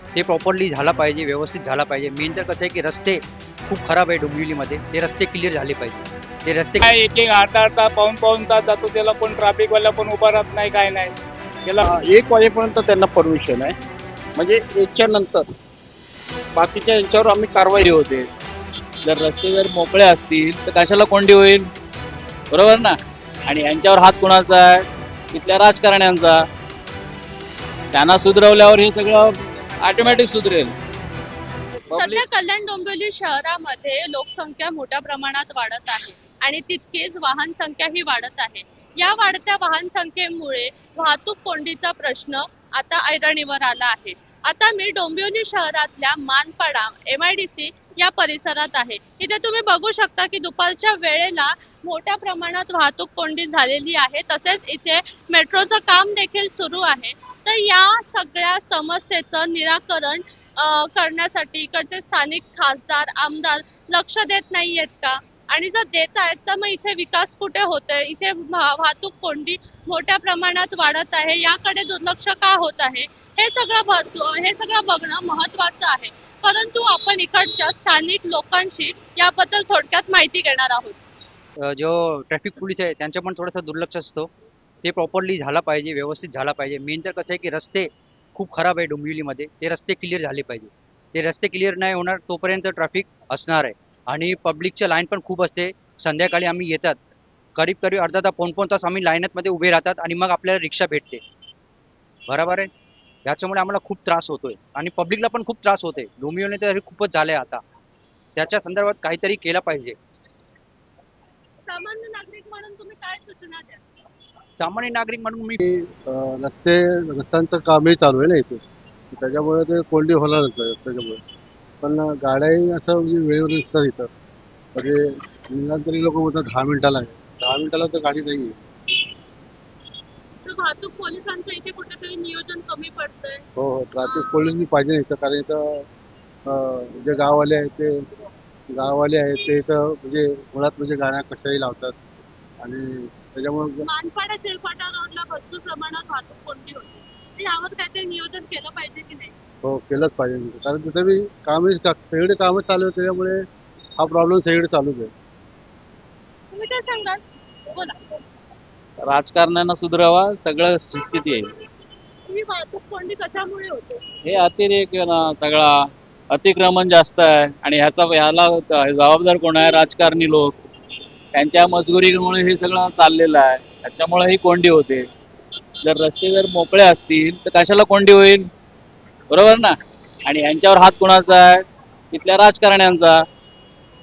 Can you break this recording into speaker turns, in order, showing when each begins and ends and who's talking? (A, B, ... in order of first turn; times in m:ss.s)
0:00.1-0:06.8 A
0:06.8-0:11.1 B
0:11.8-0:13.7 C
0:14.4-0:15.5 C
0:16.6-0:17.9 C
0:17.8-0:18.2 D
0:19.0-0:21.7 D
0:22.5-0:26.5 D
0:27.9-0:30.7 D
0:31.9-0:32.2 D
0:31.9-1:21.0 E
1:21.6-1:24.3 A
1:24.8-1:37.0 A
1:37.6-1:41.2 A
1:42.3-1:42.7 A
1:43.2-1:47.6 A
1:48.4-1:50.0 A
1:51.6-1:53.8 E
1:54.5-1:55.6 A
1:55.6-2:01.2 F
2:01.8-2:04.1 F
2:04.7-2:08.6 F
2:10.4-2:13.4 E
2:13.6-2:15.8 F
2:14.0-2:14.5 E
2:16.4-2:17.9 F
2:18.7-2:22.0 F
2:22.6-2:23.9 F
2:23.8-2:29.3 E
2:29.6-2:33.4 F
2:34.0-2:35.1 F
2:36.5-2:38.0 E
2:39.0-2:41.5 D
2:42.3-2:44.0 E
2:44.2-2:50.6 D
2:51.3-2:55.1 D
2:55.8-2:58.5 D
2:59.3-3:03.2 D